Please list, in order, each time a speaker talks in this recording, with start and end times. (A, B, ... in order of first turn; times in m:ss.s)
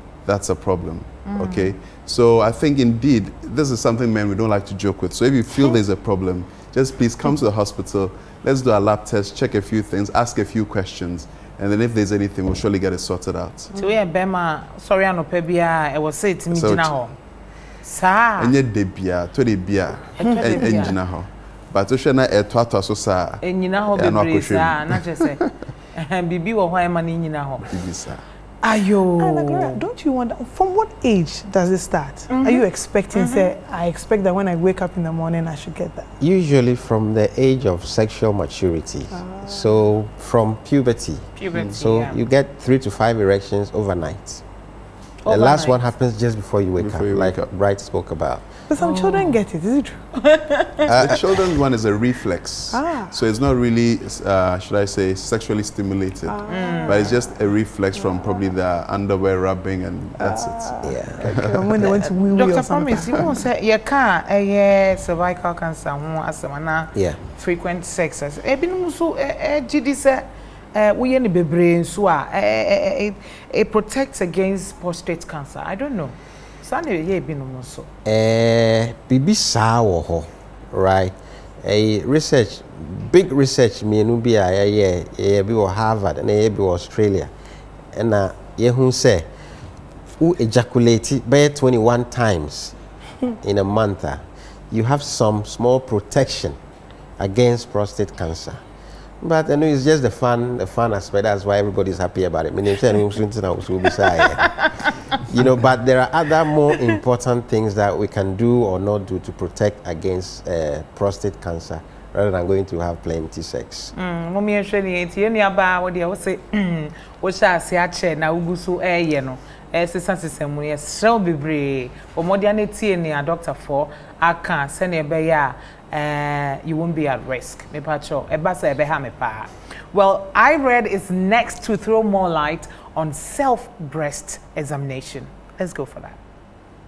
0:00.2-0:13.7 A
0:01.2-0:01.8 B
0:13.7-0:17.1 B
0:16.5-0:17.0 A
0:17.8-0:18.5 B
0:18.4-0:25.5 A
0:20.2-0:20.9 B
0:20.2-0:21.0 C
0:23.4-0:25.4 B
0:25.9-0:27.6 B
0:27.7-0:28.2 A
0:28.6-0:29.8 B
0:29.2-0:36.1 C
0:32.3-0:33.5 B
0:36.2-0:44.4 D
0:39.1-0:39.8 C
0:41.4-0:42.2 B
0:45.2-0:45.8 B
0:45.3-0:48.4 D
0:46.8-0:47.5 A
0:48.7-0:50.0 C
0:48.8-0:49.4 B
0:50.3-0:50.7 B
0:50.9-1:01.7 A
0:52.7-0:53.2 C
0:56.3-0:57.3 C
0:56.5-0:57.1 B
0:57.9-0:58.5 C
1:00.2-1:03.3 C
1:00.8-1:01.4 D
1:01.8-1:17.9 B
1:06.9-1:07.2 D
1:18.0-1:27.3 D
1:27.9-1:29.3 D
1:30.2-1:32.8 D
1:33.4-1:36.6 D
1:37.2-1:38.6 D
1:39.2-1:44.7 D
1:45.3-1:53.9 D
1:53.9-2:16.2 B